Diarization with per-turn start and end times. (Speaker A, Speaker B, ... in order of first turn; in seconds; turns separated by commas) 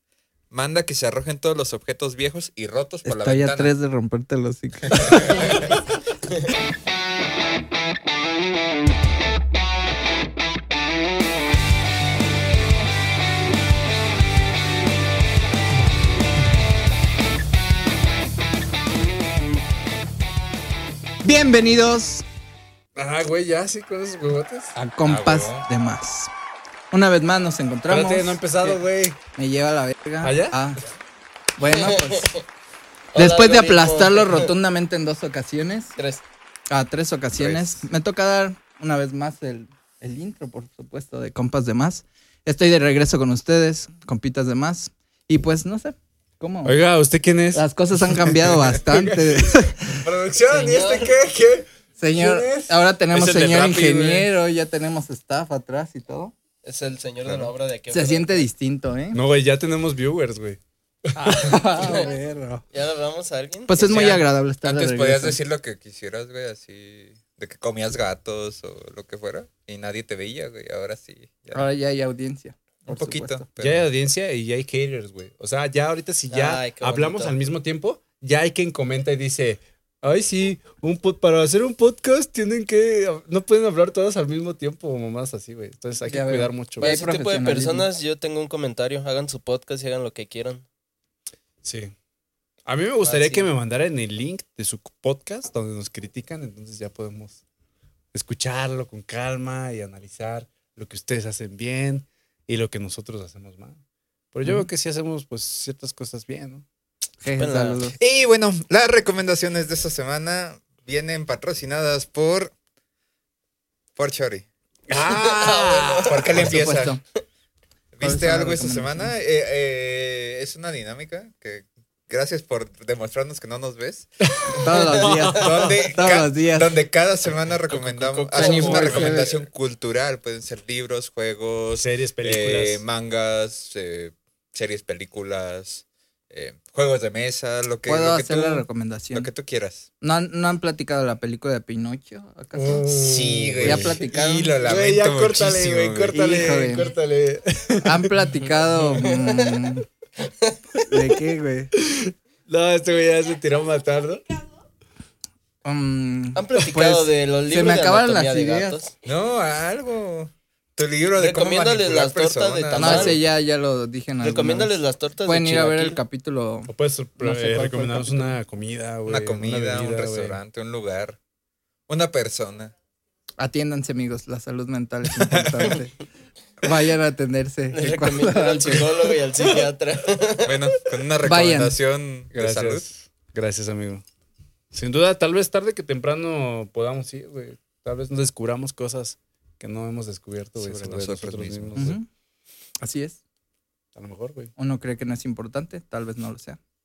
Speaker A: 0.5-3.7, Speaker B: 3.0-5.5, Speaker A: 4.9-5.7, Speaker B: 21.2-22.2, Speaker C: 22.9-24.7, Speaker B: 24.7-26.3, Speaker A: 25.1-25.6, Speaker B: 26.9-28.4, Speaker C: 27.9-29.2, Speaker B: 29.4-30.8, Speaker C: 30.2-30.6, Speaker B: 31.6-32.3, Speaker D: 31.7-32.4, Speaker D: 33.1-34.5, Speaker B: 33.1-35.9, Speaker D: 36.0-36.2, Speaker B: 36.7-46.8, Speaker A: 37.4-37.8, Speaker C: 46.6-54.3, Speaker B: 47.5-49.8, Speaker D: 50.5-51.2, Speaker B: 52.0-56.3, Speaker D: 56.6-58.5, Speaker A: 57.2-57.5, Speaker B: 57.9-59.2, Speaker C: 59.1-61.7, Speaker B: 61.1-62.6, Speaker D: 61.8-62.1, Speaker D: 62.7-64.1, Speaker B: 63.7-65.4, Speaker A: 63.8-71.7, Speaker B: 71.5-73.4, Speaker A: 72.8-73.9, Speaker C: 73.6-86.9, Speaker D: 76.3-77.3, Speaker B: 86.0-87.9, Speaker D: 86.8-90.6, Speaker C: 91.6-91.9, Speaker C: 92.7-97.4, Speaker D: 93.0-93.5, Speaker C: 98.1-103.8, Speaker C: 104.3-106.6, Speaker B: 107.2-108.0, Speaker D: 107.4-107.9, Speaker A: 108.0-112.5, Speaker A: 114.0-114.5, Speaker C: 114.9-116.5, Speaker D: 115.1-116.3, Speaker A: 116.0-117.0, Speaker B: 116.3-117.0, Speaker A: 117.9-124.1, Speaker B: 118.0-119.1, Speaker C: 124.3-125.8, Speaker B: 124.5-126.8, Speaker A: 125.3-139.9, Speaker D: 127.7-129.3, Speaker B: 128.3-129.4, Speaker C: 131.8-132.8, Speaker B: 137.9-139.3, Speaker B: 140.0-143.1, Speaker C: 142.5-144.0, Speaker A: 143.0-146.3, Speaker B: 143.6-144.5, Speaker C: 144.6-148.1, Speaker B: 146.1-146.9, Speaker B: 147.8-149.8, Speaker D: 148.4-149.7, Speaker D: 150.2-150.8, Speaker B: 150.8-151.7, Speaker C: 151.8-154.2, Speaker B: 155.6-158.8, Speaker D: 156.3-158.9, Speaker A: 159.0-163.2, Speaker D: 161.1-163.2, Speaker B: 162.7-164.7, Speaker D: 164.2-166.0, Speaker B: 165.2-168.3, Speaker C: 166.7-170.4, Speaker A: 169.1-171.2, Speaker A: 171.9-172.7, Speaker B: 173.4-175.9, Speaker A: 175.1-175.8, Speaker B: 176.6-179.1, Speaker D: 177.7-180.7, Speaker A: 180.4-182.8, Speaker B: 181.2-181.8, Speaker C: 182.3-184.0, Speaker C: 184.7-192.0, Speaker A: 190.6-191.9, Speaker B: 191.8-192.1, Speaker B: 192.8-193.2, Speaker C: 193.9-194.5, Speaker B: 194.6-196.6